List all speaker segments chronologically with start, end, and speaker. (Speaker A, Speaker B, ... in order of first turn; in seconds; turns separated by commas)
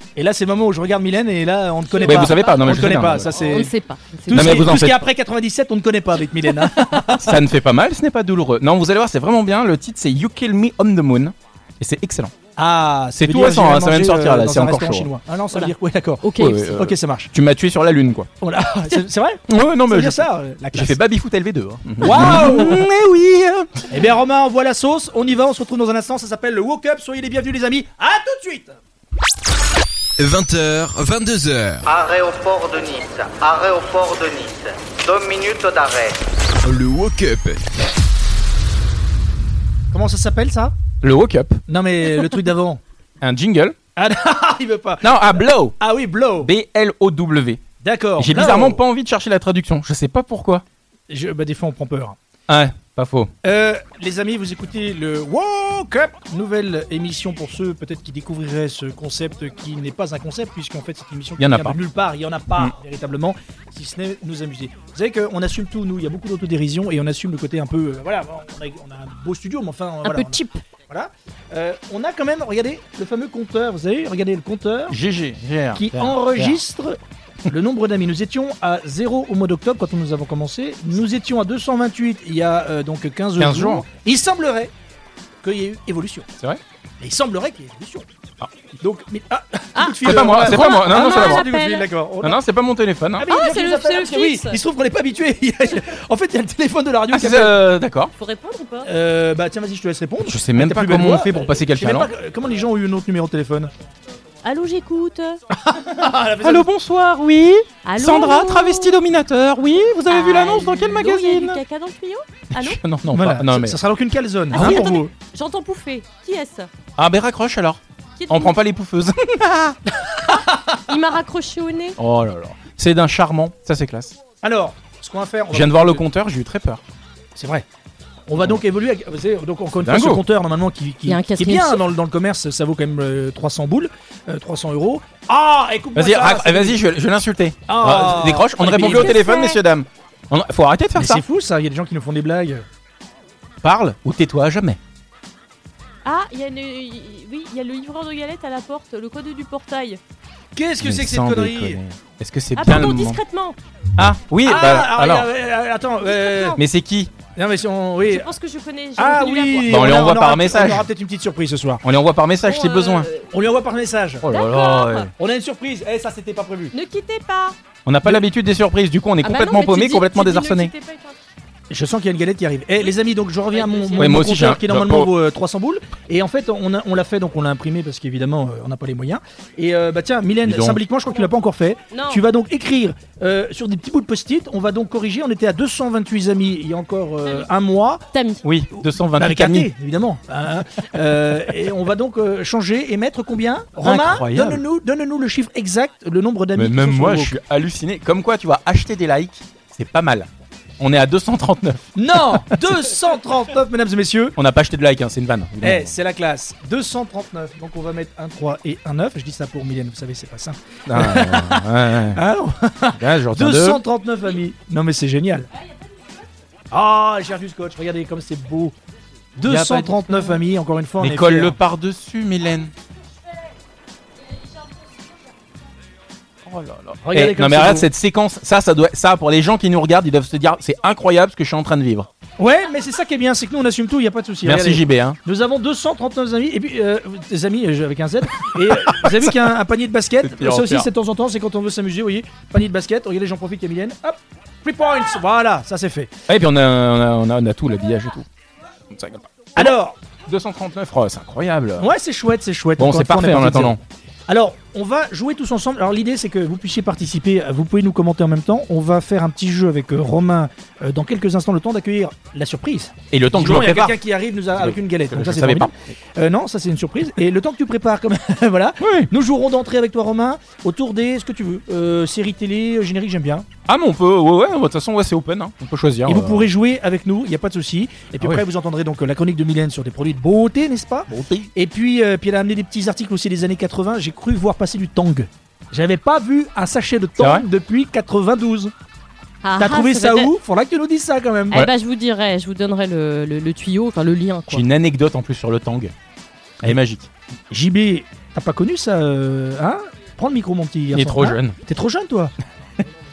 Speaker A: 0.2-3.7, Speaker B: 1.8-4.7, Speaker C: 2.1-3.6, Speaker A: 4.3-7.4, Speaker C: 4.3-5.0, Speaker C: 7.2-12.3, Speaker A: 12.6-17.3, Speaker C: 13.2-15.1, Speaker B: 15.5-16.8, Speaker C: 16.4-18.3, Speaker A: 18.4-20.9, Speaker C: 19.5-23.9, Speaker A: 22.0-22.9, Speaker A: 23.9-28.8, Speaker D: 30.2-31.9, Speaker E: 31.9-36.2, Speaker D: 36.6-37.6, Speaker A: 39.9-40.8, Speaker C: 41.0-41.6, Speaker A: 41.7-42.8, Speaker C: 43.2-43.8, Speaker A: 44.0-46.5, Speaker C: 45.0-45.8, Speaker C: 46.4-47.6, Speaker A: 47.8-48.8, Speaker C: 48.2-50.6, Speaker A: 51.1-52.2, Speaker C: 52.5-53.3, Speaker A: 53.4-75.0, Speaker C: 61.4-61.8, Speaker B: 70.0-70.6, Speaker C: 74.9-76.6, Speaker A: 75.8-84.7, Speaker C: 83.4-83.8, Speaker A: 85.4-86.3, Speaker A: 87.0-88.1, Speaker A: 88.8-92.4, Speaker B: 89.8-91.9, Speaker C: 90.0-91.5, Speaker C: 92.2-93.3, Speaker A: 93.2-97.5, Speaker B: 93.3-94.6, Speaker C: 97.1-98.1, Speaker B: 98.2-98.9, Speaker A: 98.9-103.7, Speaker C: 100.2-102.1, Speaker B: 104.4-105.4, Speaker A: 105.6-106.7, Speaker C: 106.4-111.6, Speaker B: 107.8-109.0, Speaker B: 110.1-112.8, Speaker C: 112.5-113.8, Speaker A: 113.1-115.1, Speaker B: 114.5-116.7, Speaker C: 114.5-114.9, Speaker C: 117.0-119.8, Speaker B: 118.2-118.6, Speaker B: 120.9-122.0, Speaker C: 122.0-124.2, Speaker A: 124.4-126.0, Speaker C: 125.5-126.8, Speaker A: 127.4-127.7, Speaker A: 128.3-136.8, Speaker C: 129.8-130.2, Speaker B: 131.1-131.8, Speaker C: 135.9-141.2, Speaker A: 137.7-139.2, Speaker B: 138.6-139.6, Speaker A: 141.0-142.7, Speaker C: 143.6-144.8, Speaker B: 146.1-150.0, Speaker A: 150.6-151.8, Speaker C: 150.8-153.2, Speaker B: 152.6-153.6, Speaker C: 154.0-155.3, Speaker A: 154.5-156.6, Speaker B: 156.0-156.6, Speaker C: 156.6-157.1, Speaker A: 157.4-158.3, Speaker B: 158.1-159.8, Speaker A: 159.0-161.8, Speaker C: 159.7-160.9, Speaker C: 161.8-163.1, Speaker B: 162.5-163.3, Speaker A: 163.3-164.2, Speaker C: 164.2-165.1, Speaker B: 164.3-165.1, Speaker A: 165.2-166.7, Speaker B: 166.7-167.6, Speaker C: 167.9-170.7, Speaker B: 169.2-171.2, Speaker A: 171.7-188.0, Speaker B: 173.5-174.3, Speaker C: 174.0-175.1, Speaker C: 180.4-180.8, Speaker B: 181.9-182.2, Speaker B: 188.1-188.4, Speaker C: 188.4-189.7, Speaker A: 189.2-197.3, Speaker C: 193.8-194.6, Speaker C: 196.6-202.6, Speaker A: 202.0-204.3, Speaker C: 204.4-205.9, Speaker A: 205.6-215.5, Speaker C: 210.9-212.2, Speaker C: 213.0-213.8, Speaker B: 215.6-216.2, Speaker A: 216.7-218.8, Speaker A: 219.4-221.6, Speaker C: 219.5-220.4, Speaker C: 221.0-222.7, Speaker C: 226.5-232.1, Speaker A: 227.0-227.9, Speaker A: 232.4-246.1, Speaker C: 234.4-235.2, Speaker C: 238.4-239.6, Speaker C: 240.2-240.9, Speaker C: 246.3-248.3, Speaker C: 248.9-249.7, Speaker A: 249.6-250.0, Speaker C: 250.3-251.9, Speaker A: 251.8-273.5, Speaker C: 252.8-253.8, Speaker C: 263.1-264.0, Speaker C: 264.6-265.7, Speaker C: 268.8-269.1, Speaker C: 273.7-276.5, Speaker A: 276.1-288.7, Speaker C: 281.1-281.5, Speaker C: 287.2-287.4, Speaker B: 289.4-290.3, Speaker A: 289.6-291.6, Speaker B: 291.5-294.6, Speaker C: 294.5-295.9, Speaker C: 296.6-297.1, Speaker A: 297.5-302.3, Speaker C: 300.9-301.6